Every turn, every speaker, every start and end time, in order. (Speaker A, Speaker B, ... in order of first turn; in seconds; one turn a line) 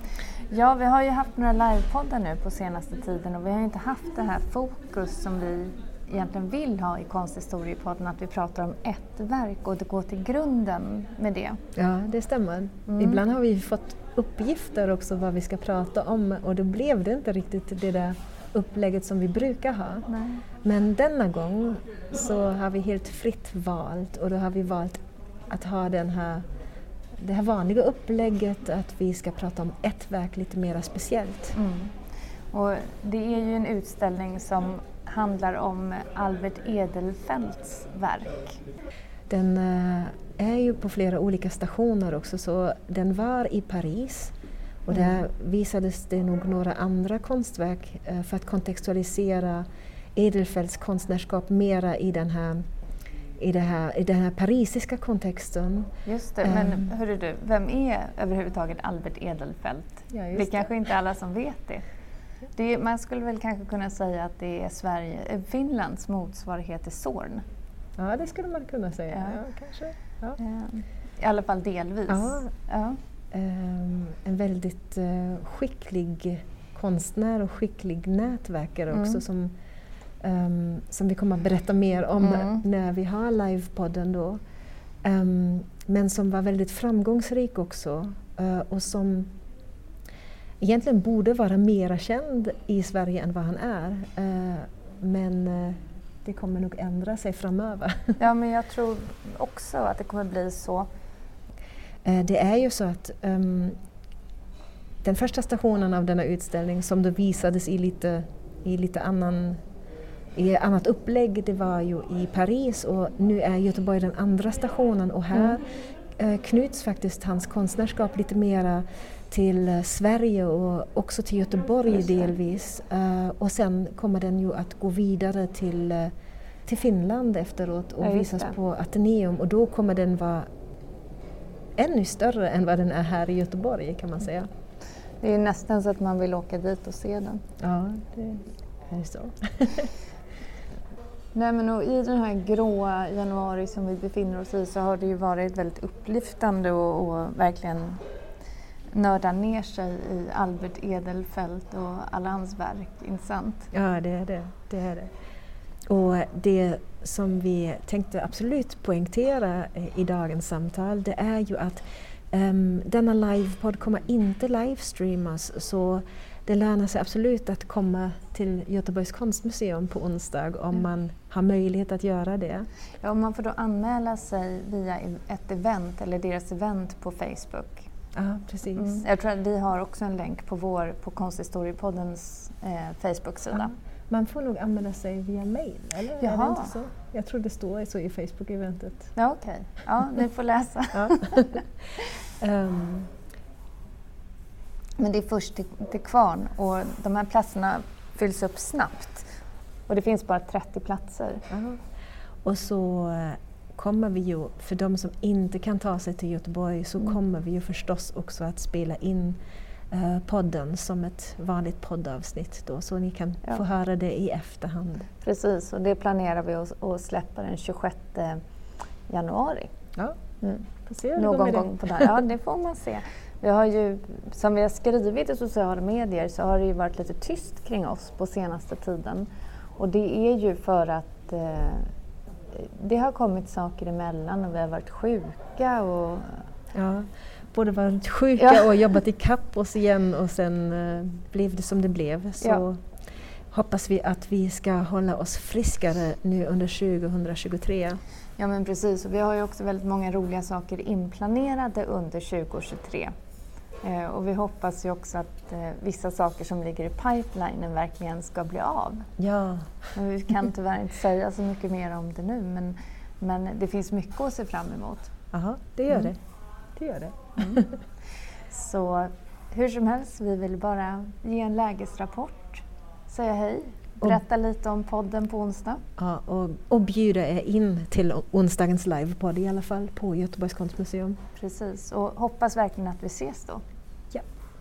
Speaker A: 0.5-11.6
Speaker B: 11.8-20.1
Speaker A: 12.9-13.2
Speaker A: 20.1-20.4
Speaker B: 20.6-26.4
Speaker B: 27.2-31.6
Speaker A: 31.5-31.9
Speaker A: 32.5-38.6
Speaker B: 39.3-44.3
Speaker B: 44.9-52.6
Speaker A: 44.9-45.2
Speaker B: 53.4-55.9
Speaker A: 56.0-61.8
Speaker B: 56.4-56.9
Speaker B: 60.1-60.7
Speaker A: 62.5-67.4
Speaker B: 68.0-70.4
Speaker A: 69.1-69.4
Speaker A: 70.4-73.0
Speaker B: 72.1-72.5
Speaker B: 73.3-79.5
Speaker A: 78.9-79.2
Speaker B: 80.2-84.4
Speaker A: 82.2-82.6
Speaker B: 85.0-89.3
Speaker B: 90.6-98.2
Speaker A: 98.2-100.9
Speaker B: 102.0-103.8
Speaker B: 105.0-109.6
Speaker B: 110.3-115.6
Speaker B: 116.2-126.1
Speaker B: 126.7-130.5
Speaker A: 128.0-128.6
Speaker B: 131.8-134.5
Speaker A: 135.2-137.4
Speaker B: 137.6-139.9
Speaker A: 141.3-148.0
Speaker A: 148.9-153.7
Speaker B: 153.7-155.1
Speaker B: 155.9-172.7
Speaker A: 173.0-177.9
Speaker B: 178.1-179.0
Speaker A: 178.7-183.7
Speaker B: 183.5-189.1
Speaker A: 186.2-186.7
Speaker A: 189.1-191.5
Speaker B: 190.9-191.6
Speaker B: 192.4-193.1
Speaker A: 195.0-199.3
Speaker A: 199.9-201.4
Speaker B: 201.5-201.8
Speaker B: 202.4-209.4
Speaker B: 209.9-215.1
Speaker A: 215.2-218.4
Speaker A: 219.1-219.7
Speaker A: 220.4-231.9
Speaker B: 220.9-222.2
Speaker A: 232.5-236.4
Speaker B: 236.7-242.8
Speaker A: 238.4-238.6
Speaker B: 243.5-248.0
Speaker A: 248.4-253.1
Speaker A: 253.8-259.1
Speaker B: 259.2-259.9
Speaker A: 259.9-265.1
Speaker B: 265.3-266.2
Speaker B: 266.8-267.7
Speaker A: 268.5-275.8
Speaker B: 276.0-281.2
Speaker A: 281.4-283.6